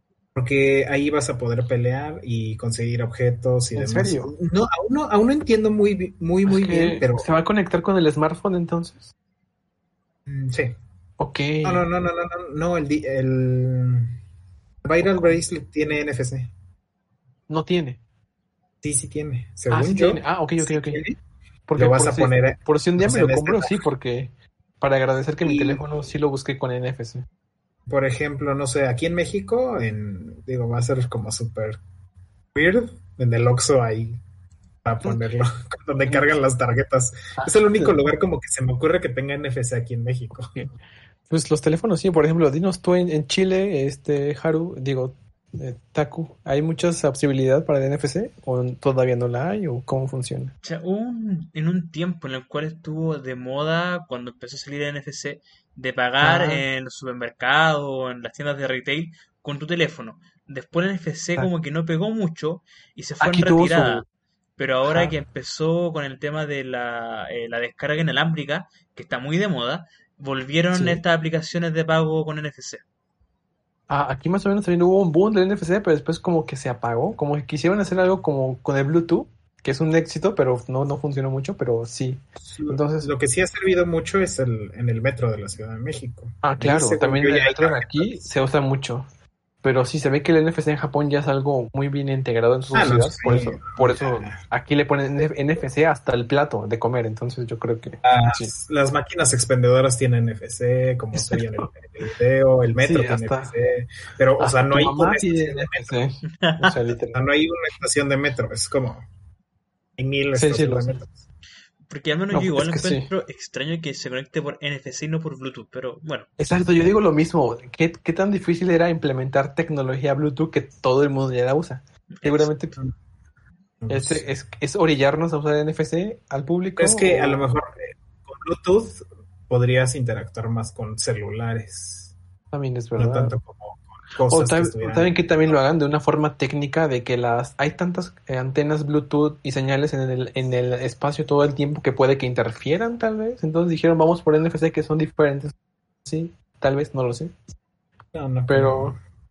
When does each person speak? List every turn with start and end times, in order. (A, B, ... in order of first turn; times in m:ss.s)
0:00.3-0:07.2 A
0:03.7-0:04.3 B
0:06.4-0:09.1 B
0:10.2-0:10.7 A
0:11.2-0:11.8 B
0:11.6-0:14.2 A
0:14.8-0:16.5 A
0:15.0-0:15.3 B
0:17.5-0:18.0 B
0:18.8-0:21.2 A
0:19.7-0:21.0 B
0:21.7-0:27.2 B
0:21.8-0:23.8 A
0:25.4-0:25.8 A
0:27.9-0:31.8 A
0:32.5-0:34.2 A
0:34.8-0:40.6 A
0:36.1-0:36.3 B
0:37.4-0:38.0 B
0:41.3-0:50.5 B
0:50.6-1:04.0 C
0:56.2-0:56.6 B
1:03.2-1:04.0 B
1:04.6-1:12.8 C
1:04.8-1:05.1 B
1:10.7-1:11.0 B
1:13.9-1:23.1 B
1:22.5-1:28.2 A
1:26.4-1:29.1 B
1:29.6-1:38.5 B
1:32.7-1:34.4 A
1:38.0-1:46.0 A
1:41.1-1:41.7 B
1:42.8-1:43.5 B
1:44.4-1:47.2 B
1:46.4-1:46.8 C
1:47.1-1:49.0 A
1:50.0-1:51.2 A
1:50.3-1:51.0 B
1:51.9-1:56.3 C
1:52.3-1:53.1 B
1:56.4-2:02.8 B
2:02.1-2:02.5 C
2:03.8-2:04.3 A
2:03.9-2:07.4 B
2:06.8-2:12.1 A
2:12.5-2:13.4 B
2:13.0-2:15.2 A
2:14.3-2:25.5 B
2:26.0-2:27.3 B
2:28.1-2:29.0 A
2:28.5-2:28.9 B